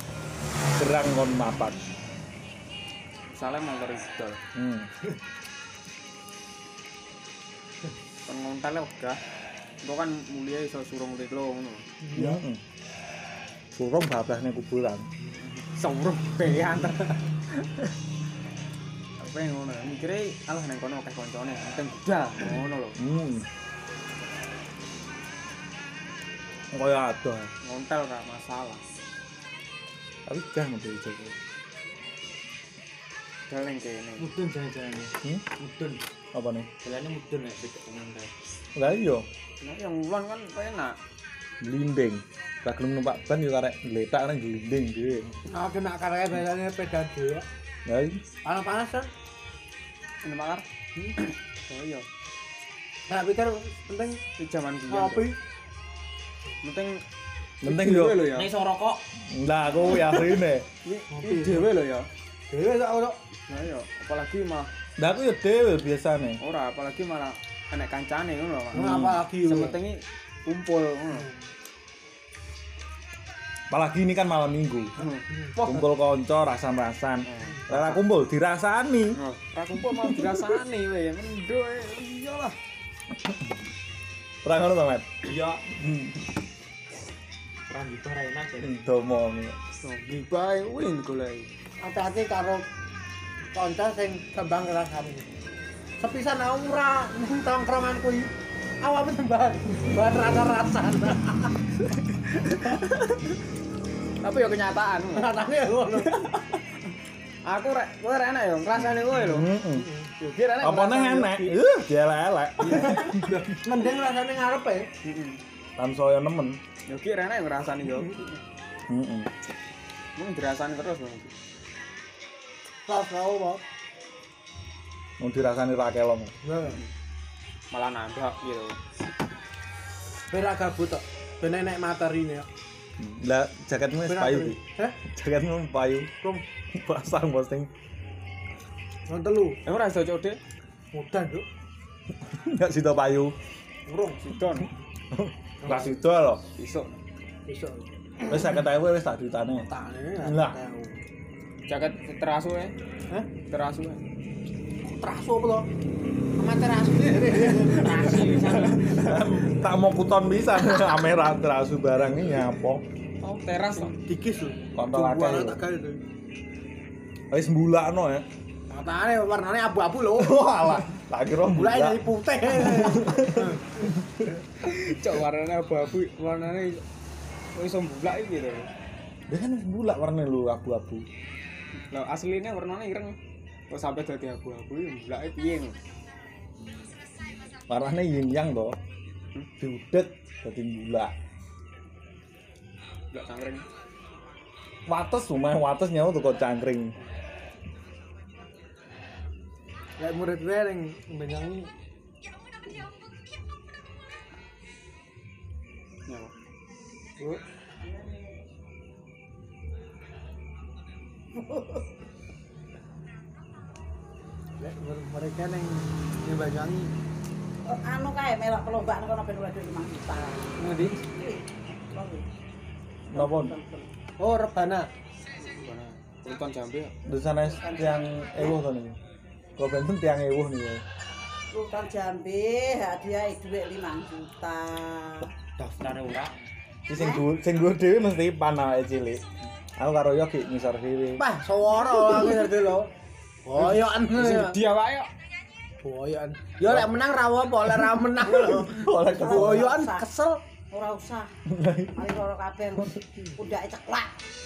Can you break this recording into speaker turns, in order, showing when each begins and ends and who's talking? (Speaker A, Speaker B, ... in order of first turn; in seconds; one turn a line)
Speaker A: 0.7-1.8
Speaker B: 3.3-4.4
Speaker A: 4.5-5.1
Speaker B: 8.2-9.2
Speaker B: 9.8-11.9
Speaker C: 12.0-12.4
Speaker A: 12.1-12.6
Speaker A: 13.8-15.1
Speaker B: 15.5-17.2
Speaker B: 19.2-23.0
Speaker A: 23.0-23.4
Speaker A: 26.7-27.5
Speaker B: 27.6-28.8
Speaker A: 30.3-31.4
Speaker B: 33.5-34.3
Speaker D: 34.2-36.0
Speaker A: 36.3-36.7
Speaker D: 36.8-38.3
Speaker A: 38.8-39.2
Speaker B: 39.6-41.0
Speaker A: 41.6-45.3
Speaker C: 45.5-47.4
Speaker A: 47.9-48.2
Speaker C: 48.4-49.1
Speaker B: 50.2-50.6
Speaker B: 51.7-52.0
Speaker C: 53.1-54.2
Speaker B: 54.4-55.3
Speaker C: 54.9-55.4
Speaker B: 56.6-57.0
Speaker A: 57.6-58.3
Speaker B: 57.6-58.5
Speaker D: 58.3-59.0
Speaker A: 59.3-60.6
Speaker B: 59.8-60.1
Speaker B: 60.9-62.1
Speaker C: 61.1-61.7
Speaker C: 62.5-63.2
Speaker B: 63.5-64.7
Speaker A: 65.0-66.4
Speaker B: 66.4-71.3
Speaker C: 68.7-69.8
Speaker A: 68.8-69.2
Speaker A: 73.7-75.0
Speaker B: 75.0-75.2
Speaker C: 75.4-75.9
Speaker A: 75.6-79.2
Speaker B: 77.3-78.0
Speaker B: 79.2-82.5
Speaker A: 79.9-80.4
Speaker A: 84.4-85.2
Speaker D: 85.2-85.6
Speaker A: 85.8-86.2
Speaker D: 87.7-88.7
Speaker A: 88.6-89.6
Speaker B: 89.8-91.5
Speaker C: 91.8-92.6
Speaker C: 93.5-95.2
Speaker C: 96.0-98.3
Speaker C: 98.8-101.5
Speaker B: 104.2-105.4
Speaker C: 105.1-106.4
Speaker B: 107.5-109.5
Speaker A: 108.7-109.9
Speaker C: 109.8-110.1
Speaker B: 110.2-111.5
Speaker A: 110.6-113.4
Speaker C: 112.6-114.9
Speaker B: 115.0-115.4
Speaker A: 115.8-116.6
Speaker B: 116.9-118.4
Speaker C: 117.8-118.2
Speaker A: 118.9-119.3
Speaker B: 120.2-121.3
Speaker C: 122.9-123.6
Speaker A: 125.2-126.3
Speaker C: 126.4-126.8
Speaker B: 127.7-128.8
Speaker C: 130.3-132.4
Speaker A: 133.0-136.1
Speaker C: 134.1-134.9
Speaker A: 136.7-137.7
Speaker C: 139.1-139.6
Speaker B: 139.6-140.4
Speaker C: 140.9-141.4
Speaker A: 142.3-143.3
Speaker C: 143.9-144.2
Speaker B: 144.2-144.7
Speaker A: 145.1-146.4
Speaker C: 145.6-145.9
Speaker B: 146.5-147.0
Speaker C: 147.5-148.5
Speaker A: 148.3-149.7
Speaker C: 149.7-151.0
Speaker A: 150.2-150.6
Speaker B: 151.7-152.7
Speaker B: 153.5-154.0
Speaker C: 154.8-155.7
Speaker C: 156.4-158.8
Speaker B: 157.8-158.7
Speaker A: 158.7-162.8
Speaker B: 163.2-164.0
Speaker C: 163.9-166.0
Speaker A: 164.8-165.6
Speaker A: 167.3-168.2
Speaker C: 168.7-170.4
Speaker A: 170.1-174.3
Speaker C: 171.5-173.6
Speaker B: 174.6-176.8
Speaker B: 177.5-178.7
Speaker A: 179.3-181.1
Speaker B: 181.9-183.2
Speaker B: 183.7-185.8
Speaker A: 187.7-188.8
Speaker A: 189.6-191.1
Speaker B: 193.1-193.6
Speaker A: 194.9-196.9
Speaker C: 200.0-201.7
Speaker B: 206.1-206.3
Speaker C: 214.6-216.9
Speaker E: 217.7-222.2
Speaker C: 220.6-221.0
Speaker A: 223.1-223.6
Speaker E: 223.1-223.9
Speaker C: 224.2-224.9
Speaker B: 225.4-226.9
Speaker A: 227.1-229.0
Speaker E: 227.4-228.1
Speaker A: 229.6-230.8
Speaker E: 231.5-235.3
Speaker D: 235.8-236.4
Speaker A: 236.9-239.2
Speaker E: 236.9-237.2
Speaker A: 239.8-241.2
Speaker C: 241.2-242.9
Speaker C: 243.4-244.6
Speaker B: 243.6-245.1
Speaker C: 245.8-250.4
Speaker A: 246.6-246.9
Speaker A: 248.2-249.8
Speaker E: 249.1-250.0
Speaker E: 250.7-251.3
Speaker A: 251.4-252.1
Speaker E: 251.9-254.1